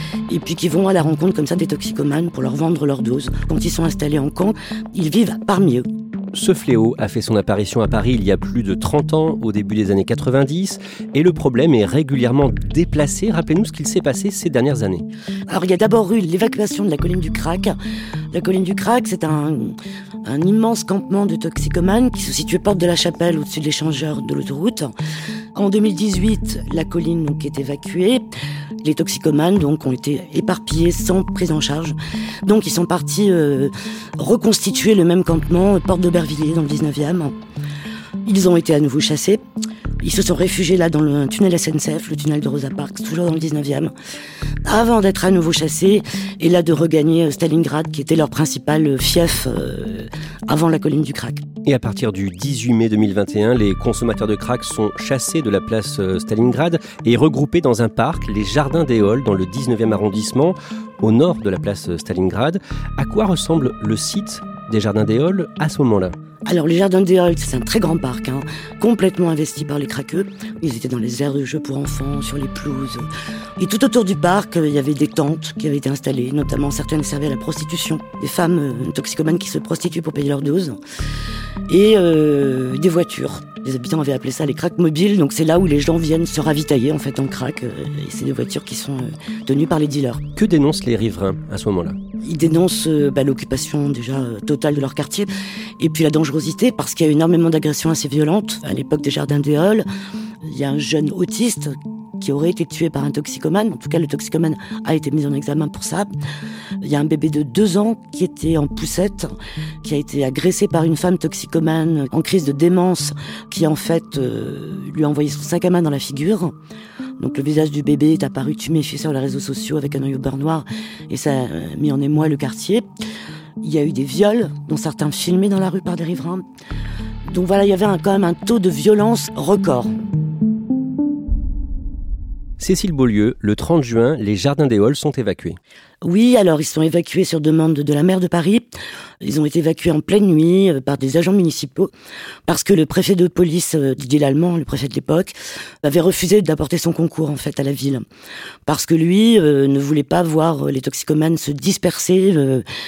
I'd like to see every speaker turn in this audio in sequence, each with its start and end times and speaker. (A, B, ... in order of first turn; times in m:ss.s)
0:00.3-0:05.9 A
0:06.3-0:15.0 B
0:15.5-0:17.8 A
0:18.3-0:24.9 A
0:25.6-0:28.2 A
0:28.8-0:37.3 A
0:38.2-0:39.4 A
0:40.0-0:43.9 A
0:44.6-0:51.5 A
0:51.6-1:06.2 B
1:06.5-1:13.1 A
1:13.6-1:20.8 A
1:21.7-1:30.2 A
1:30.4-1:32.0 B
1:32.2-1:39.8 A
1:40.4-1:46.1 A
1:46.8-1:56.6 A
1:57.2-2:02.9 A
2:03.6-2:06.4 A
2:07.2-2:09.9 A
2:12.6-2:15.6 B
2:16.0-2:21.9 A
2:22.5-2:28.0 A
2:28.7-2:32.6 A